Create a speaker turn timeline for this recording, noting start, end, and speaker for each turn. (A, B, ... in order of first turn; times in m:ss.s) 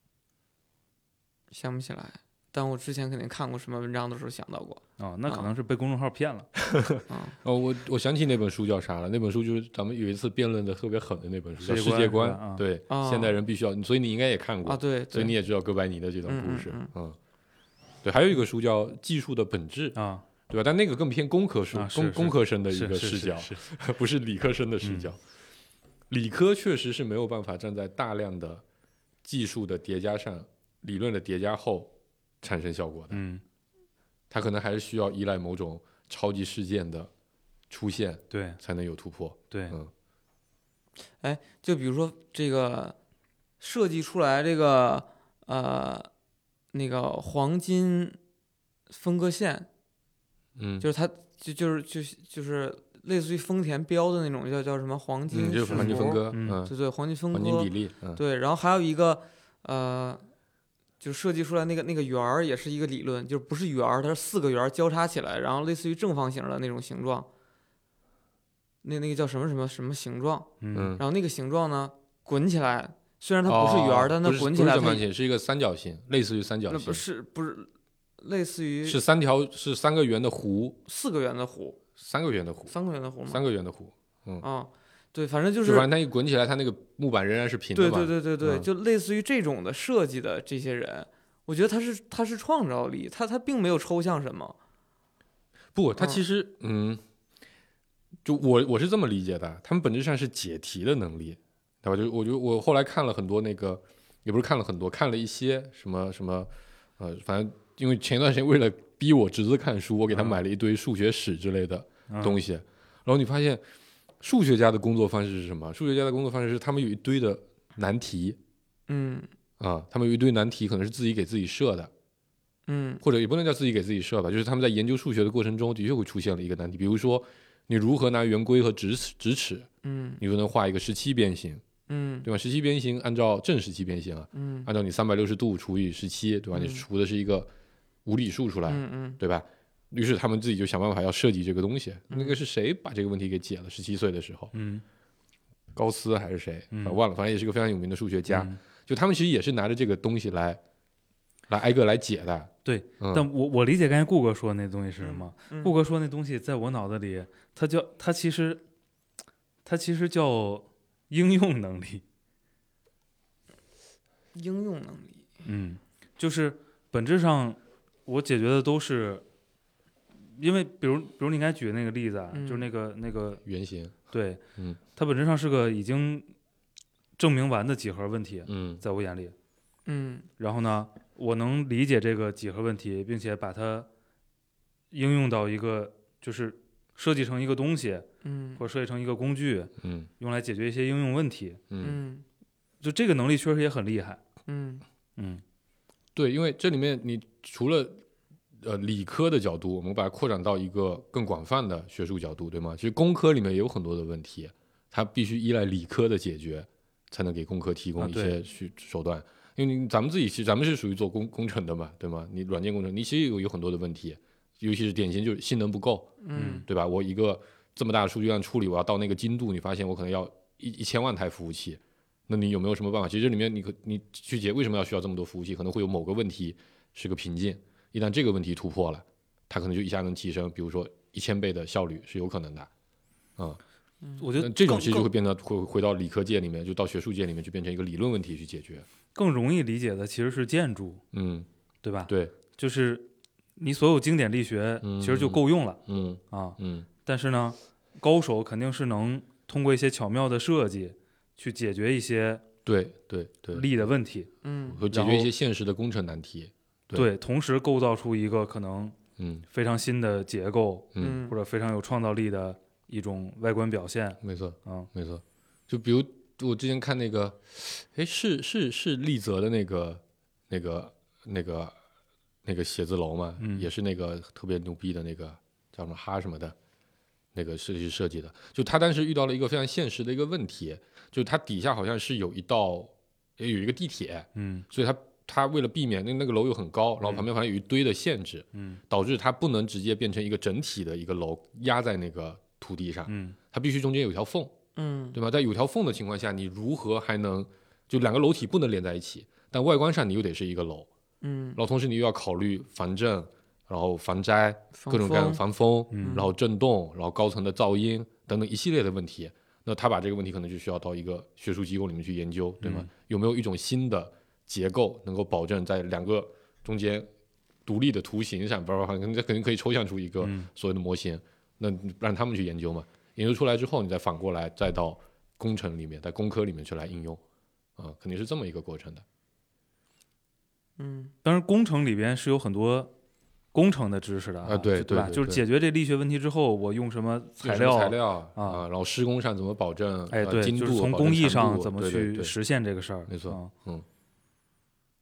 0:01.5-0:05.5 A
0:05.0-0:06.5 B
0:06.6-0:17.2 C
0:07.1-0:07.3 A
0:11.6-0:12.6 B
0:12.9-0:13.3 A
0:14.6-0:15.3 A
0:16.2-0:16.9 A
0:18.0-0:25.2 C
0:20.0-0:20.2 B
0:21.7-0:23.6 B
0:24.8-0:25.1 B
0:26.1-0:28.6 C
0:29.2-0:33.2 C
0:33.1-0:33.4 B
0:34.3-0:37.1 C
0:37.7-0:39.9 C
0:38.3-0:38.6 B
0:39.5-0:39.8 B
0:41.2-0:43.0 A
0:43.6-0:46.1 A
0:46.7-0:48.2 A
0:48.9-0:49.7 A
0:50.6-0:50.9 C
0:50.8-1:00.2 A
0:55.3-0:56.7 C
0:55.7-0:56.6 B
0:57.3-0:58.2 C
1:01.0-1:07.3 A
1:08.8-1:15.0 A
1:10.6-1:11.0 B
1:10.7-1:11.0 C
1:13.4-1:17.0 C
1:16.7-1:19.0 A
1:18.8-1:20.8 C
1:20.8-1:21.8 A
1:22.0-1:22.7 C
1:22.7-1:23.4 A
1:23.3-1:24.4 C
1:24.4-1:25.9 A
1:25.6-1:28.7 C
1:27.7-1:34.6 A
1:35.7-1:37.0 C
1:38.2-1:53.6 C
1:50.1-1:50.4 B
1:52.1-1:52.4 B
1:54.2-1:58.4 C
1:58.9-1:59.3 A
1:59.6-2:01.9 C
2:02.7-2:03.0 A
2:03.0-2:09.7 C
2:09.8-2:10.2 A
2:10.2-2:11.6 C
2:11.9-2:12.3 A
2:12.2-2:17.5 C
2:14.3-2:14.7 A
2:16.5-2:16.8 A
2:18.0-2:24.5 C
2:18.7-2:19.2 A
2:22.1-2:22.4 A
2:24.5-2:24.8 B
2:25.7-2:30.6 C
2:26.7-2:27.0 B
2:28.3-2:28.6 B
2:31.5-2:33.3 C
2:32.6-2:38.6 B
2:35.0-2:35.7 A
2:39.6-2:42.0 B
2:44.3-2:45.3 A
2:45.4-2:49.2 B
2:50.3-2:53.4 B
2:52.3-2:52.7 A
2:53.4-2:53.9 C
2:54.1-2:54.4 B
2:55.0-2:56.3 B
2:57.2-2:59.3 B
2:58.5-2:58.8 C
2:59.8-3:00.3 A
3:00.4-3:03.9 B
3:04.9-3:08.1 B
3:08.2-3:08.6 A
3:08.6-3:11.6 B
3:09.8-3:10.1 C
3:11.7-3:12.0 C
3:11.8-3:12.2 A
3:12.8-3:14.2 B
3:14.5-3:14.8 A
3:15.2-3:15.4 B
3:16.1-3:18.0 C
3:18.6-3:52.7 C
3:28.0-3:28.4 B
3:36.2-3:36.6 A
3:36.3-3:36.6 B
3:54.2-3:55.1 B
3:54.4-3:58.8 C
3:59.1-4:01.0 B
4:01.1-4:01.5 C
4:01.8-4:12.4 B
4:02.1-4:02.3 C
4:04.8-4:06.9 C
4:12.6-4:13.8 C
4:13.5-4:14.3 B
4:14.4-4:14.8 A
4:14.7-4:17.1 C
4:14.9-4:15.3 B
4:16.9-4:19.0 B
4:19.2-4:19.4 C
4:19.5-4:24.9 B
4:20.9-4:21.2 C
4:21.0-4:21.4 A
4:24.2-4:31.8 C
4:32.4-4:36.5 C
4:33.4-4:33.7 B
4:37.3-4:54.5 C
4:44.4-4:44.6 B
4:48.5-4:48.8 B
4:53.1-4:53.4 B
4:54.8-4:55.2 A
4:55.1-5:00.9 C
5:01.2-5:01.6 A
5:01.6-5:17.1 C
5:04.7-5:05.4 A
5:05.9-5:06.2 B
5:06.0-5:06.3 A
5:12.6-5:12.9 B
5:17.6-5:27.2 C
5:20.2-5:20.5 B
5:27.8-5:29.0 C
5:30.8-5:31.1 A
5:31.2-5:32.9 B
5:33.5-5:38.6 B
5:34.4-5:35.4 C
5:37.4-5:42.3 C
5:40.1-5:43.5 B
5:43.1-5:43.8 C